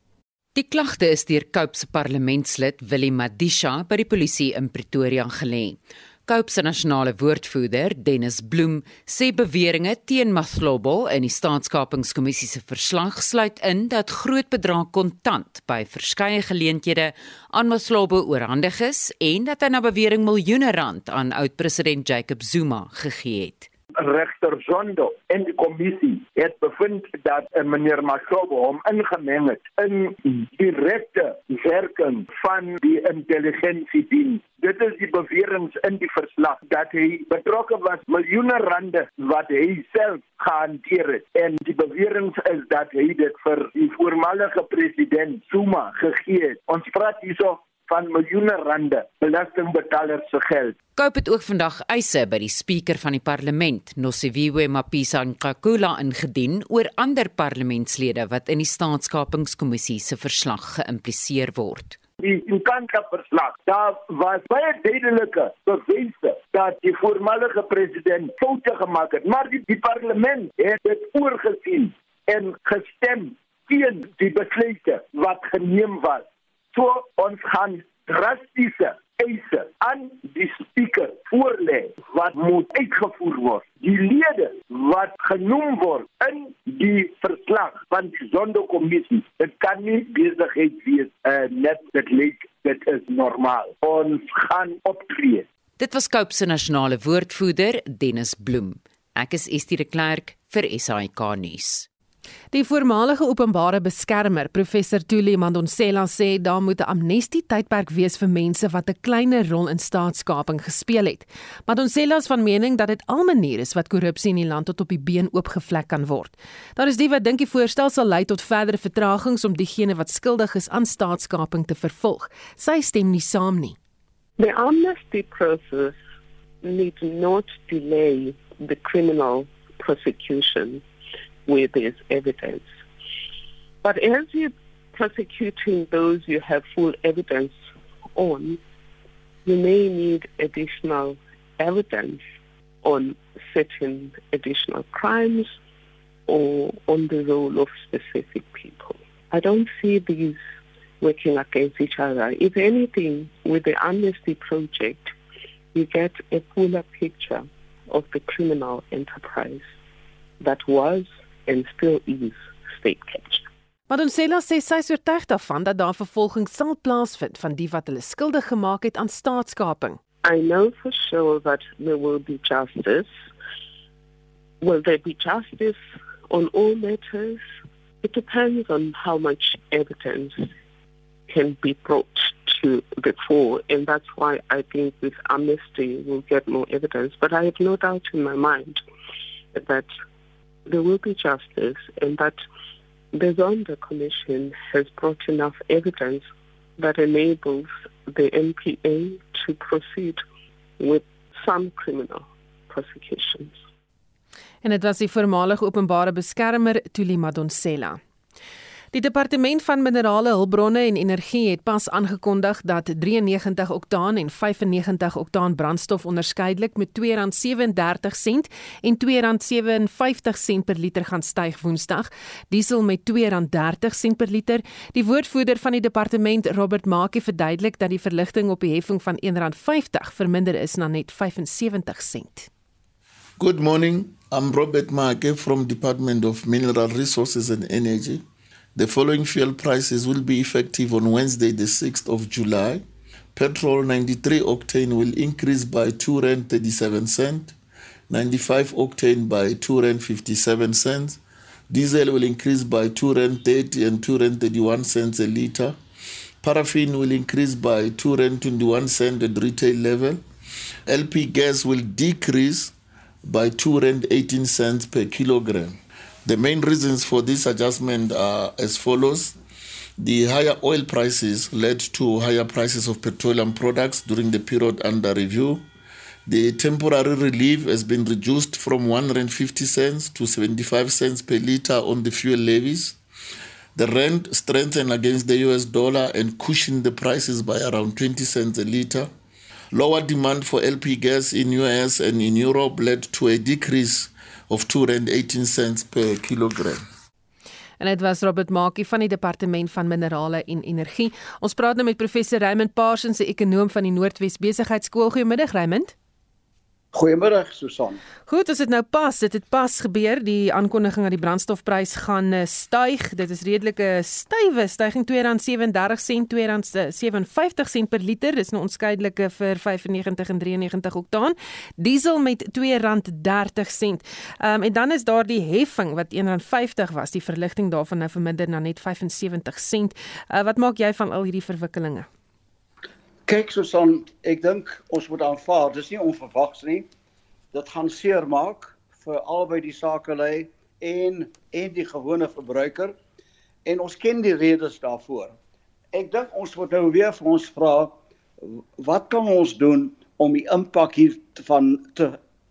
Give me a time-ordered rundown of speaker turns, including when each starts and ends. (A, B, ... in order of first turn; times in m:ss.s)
0:00.5-0:23.7 A
0:24.0-0:50.8 B
0:51.0-1:02.0 A
1:02.2-1:35.4 B
1:35.8-1:41.9 A
1:42.5-2:03.8 C
2:04.4-2:06.0 D
2:06.6-2:10.8 D
2:11.5-2:12.7 D
2:13.8-2:17.6 D
2:18.1-2:18.6 D
2:19.4-2:22.2 D
2:22.8-2:25.6 D
2:26.3-2:30.4 D
2:31.0-2:35.1 D
2:35.7-2:39.6 D
2:40.4-2:43.4 D
2:43.9-2:50.0 C
2:50.2-2:53.1 D
2:54.6-2:57.4 D
2:58.0-3:00.5 D
3:01.3-3:08.8 D
3:09.5-3:09.9 D
3:10.6-3:12.4 D
3:13.1-3:20.2 D
3:20.8-3:23.6 D
3:24.6-3:28.0 C
3:28.9-3:52.5 C
3:53.4-3:58.2 E
3:58.7-4:02.8 E
4:03.3-4:07.6 E
4:08.1-4:15.8 E
4:16.4-4:20.2 E
4:20.9-4:29.4 E
4:30.0-4:35.6 E
4:36.2-4:43.0 E
4:43.7-4:49.1 E
4:49.7-4:56.8 E
4:57.8-5:05.9 C
5:06.9-5:08.0 F
5:08.3-5:32.1 C
5:33.3-5:36.9 F
5:37.5-5:42.9 F
5:43.6-5:45.3 F
5:45.9-5:47.9 F
5:48.5-5:52.2 F